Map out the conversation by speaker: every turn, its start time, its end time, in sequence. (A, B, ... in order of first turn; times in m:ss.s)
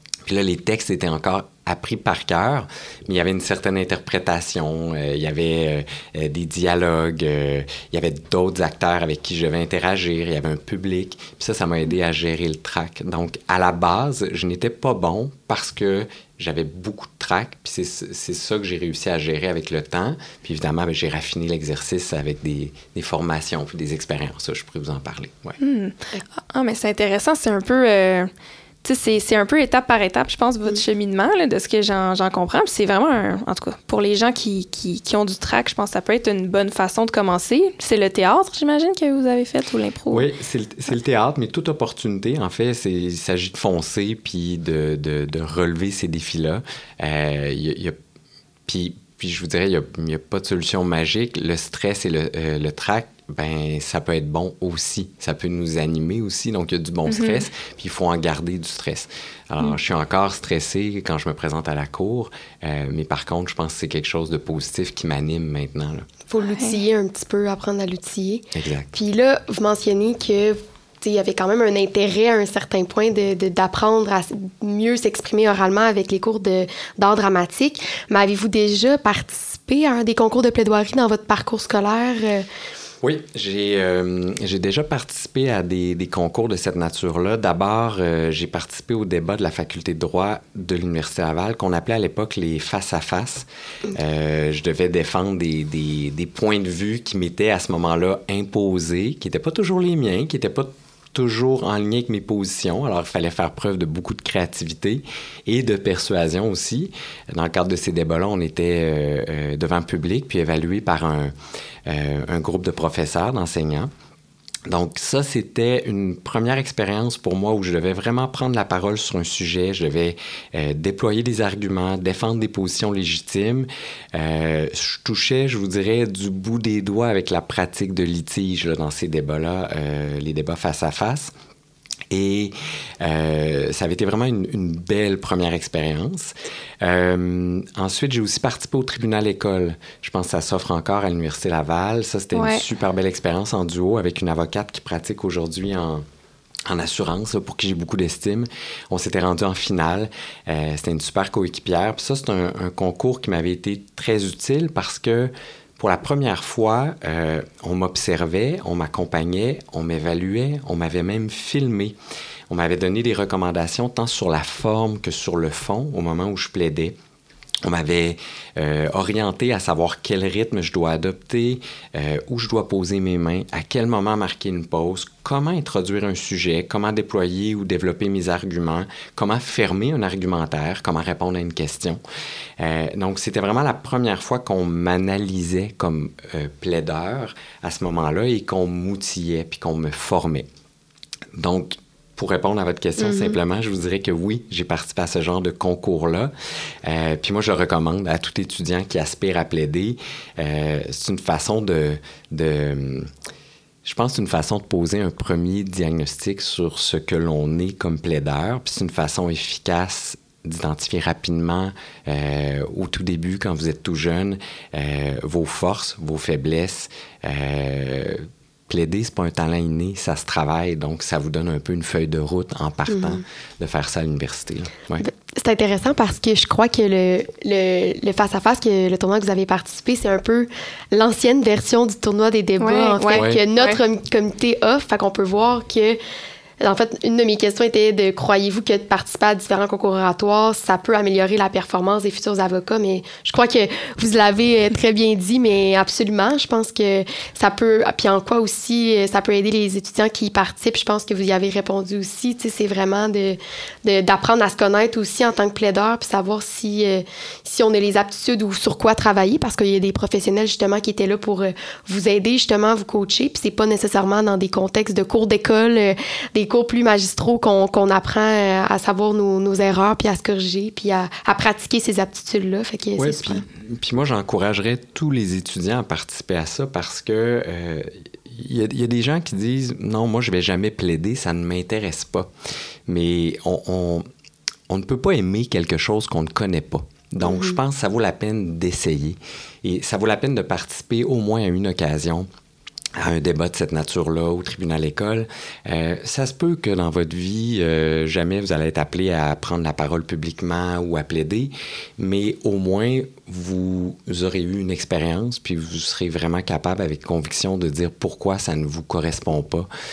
0:00.3-0:25.6 A
0:25.6-0:28.3 B
0:28.8-0:40.3 B
0:40.1-0:48.0 A
0:48.7-1:06.1 A
0:57.1-0:57.4 B
1:06.3-1:22.5 C
1:06.4-1:06.8 B
1:08.5-1:08.9 A
1:23.0-1:51.3 A
1:51.9-1:53.9 A
1:54.7-2:11.3 A
2:12.1-2:26.0 A
2:22.3-2:22.6 B
2:26.7-2:42.0 A
2:42.5-2:46.9 A
2:47.6-3:02.0 A
3:02.6-3:10.5 A
3:11.4-3:16.3 A
3:13.0-3:13.4 C
3:16.8-3:23.1 A
3:23.8-3:45.0 A
3:42.9-3:43.2 C
3:45.0-3:56.0 C
3:52.6-3:53.8 B
3:53.1-3:53.4 A
3:56.6-4:33.4 C
4:33.0-4:42.3 A
4:42.9-4:44.0 A
4:44.7-4:52.3 A
4:47.2-4:47.6 C
4:53.0-5:09.7 A